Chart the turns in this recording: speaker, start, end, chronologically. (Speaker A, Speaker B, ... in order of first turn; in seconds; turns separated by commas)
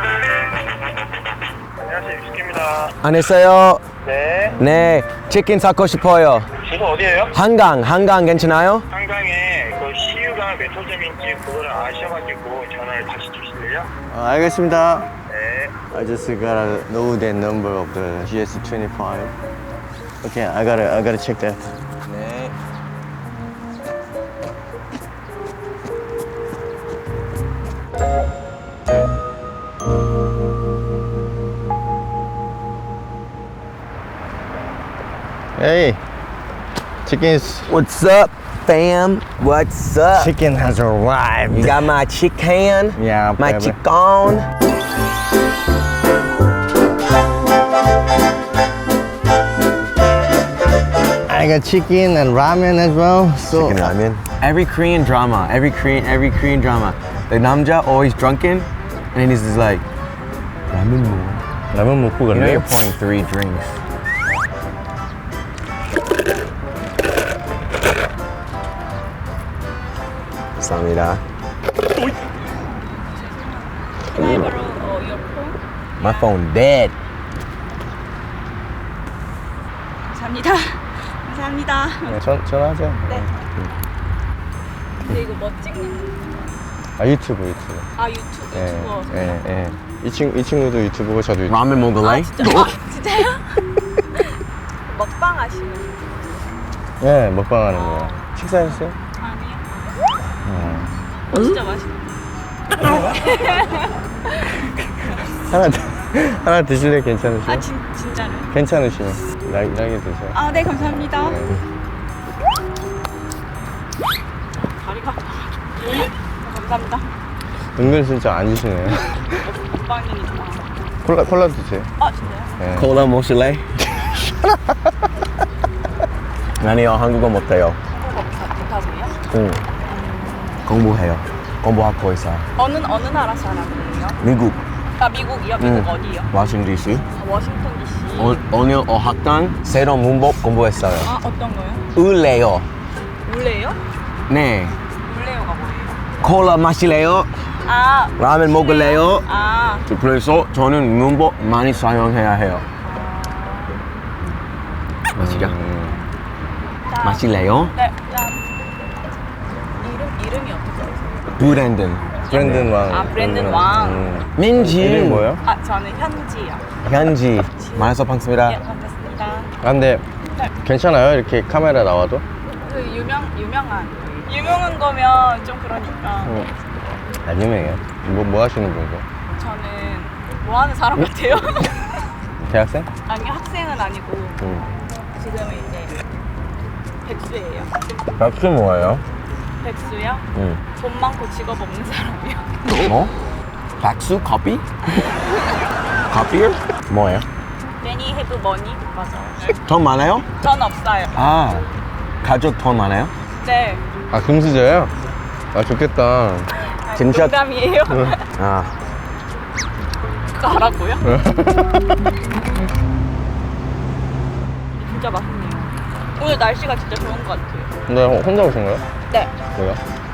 Speaker A: 1.8-2.9, Speaker B: 3.0-3.8, Speaker A: 4.0-4.5, Speaker B: 4.6-6.5, Speaker A: 6.6-7.3, Speaker B: 7.3-8.9, Speaker A: 8.9-13.9, Speaker C: 14.1-15.1, Speaker A: 15.3-15.7, Speaker C: 15.9-19.3, Speaker C: 20.2-21.7, Speaker B: 22.1-22.5, Speaker C: 35.5-36.0, Speaker C: 37.0-37.6, Speaker B: 37.7-40.3, Speaker C: 40.2-41.8, Speaker B: 41.5-44.5, Speaker C: 43.2-43.7, Speaker C: 51.3-54.0, Speaker B: 53.5-59.8, Speaker B: 60.7-61.4, Speaker C: 61.7-62.5, Speaker B: 62.3-63.8, Speaker B: 70.6-71.2, Speaker D: 72.9-76.3, Speaker B: 74.2-74.5, Speaker B: 76.0-76.9, Speaker D: 80.1-82.2, Speaker C: 82.1-83.2, Speaker D: 85.0-86.5, Speaker C: 87.0-87.8, Speaker D: 88.0-89.4, Speaker C: 88.5-91.6, Speaker B: 91.5-92.7, Speaker D: 92.0-94.3, Speaker D: 94.9-96.4, Speaker C: 97.0-99.0, Speaker D: 97.7-98.2, Speaker D: 99.2-99.6, Speaker C: 100.4-100.9, Speaker D: 101.3-102.1, Speaker D: 102.8-104.6, Speaker C: 105.4-107.6, Speaker D: 107.5-108.5, Speaker C: 108.5-110.4, Speaker D: 110.3-111.5, Speaker D: 114.8-117.1, Speaker C: 117.8-119.0, Speaker D: 119.1-120.7, Speaker C: 121.0-121.9, Speaker D: 122.0-122.6, Speaker C: 122.6-122.8, Speaker B: 122.8-124.3, Speaker B: 126.6-127.8, Speaker D: 127.9-129.1, Speaker B: 129.3-129.6, Speaker D: 129.9-130.6, Speaker B: 130.6-132.4, Speaker D: 132.6-134.2, Speaker B: 134.2-134.6, Speaker D: 135.0-136.3, Speaker B: 135.6-137.0, Speaker D: 137.1-138.4, Speaker B: 138.2-141.1, Speaker D: 141.0-141.8, Speaker B: 141.9-142.7, Speaker D: 143.2-143.8, Speaker B: 144.3-144.8, Speaker D: 145.0-146.1, Speaker B: 146.2-147.3, Speaker D: 147.6-149.8, Speaker B: 148.2-149.2, Speaker B: 149.9-152.7, Speaker D: 152.8-153.8, Speaker B: 155.1-155.5, Speaker C: 155.2-156.0, Speaker D: 156.9-158.4, Speaker B: 157.0-157.7, Speaker D: 159.8-161.3, Speaker B: 161.3-162.7, Speaker D: 162.2-164.1, Speaker C: 162.3-165.3, Speaker B: 164.3-165.3, Speaker D: 165.4-166.6, Speaker B: 166.8-168.6, Speaker D: 167.6-169.5, Speaker C: 169.6-170.0, Speaker C: 170.6-172.2, Speaker D: 172.6-176.4, Speaker C: 177.2-179.0, Speaker D: 179.3-182.0, Speaker C: 182.4-182.8, Speaker D: 183.1-184.4, Speaker D: 185.1-186.0, Speaker D: 187.0-187.7, Speaker B: 188.2-189.0, Speaker D: 189.6-192.5, Speaker B: 190.3-190.6, Speaker B: 192.8-193.1, Speaker B: 193.8-194.6, Speaker B: 196.1-197.2, Speaker D: 197.8-199.6, Speaker B: 199.6-200.2, Speaker D: 200.4-201.1, Speaker B: 201.1-201.7, Speaker B: 202.2-203.1, Speaker D: 203.4-203.8, Speaker C: 204.1-204.9, Speaker C: 205.5-206.4, Speaker D: 206.7-208.2, Speaker B: 206.9-207.4, Speaker B: 208.4-208.7, Speaker D: 210.3-211.0, Speaker D: 214.7-217.7, Speaker C: 217.9-218.8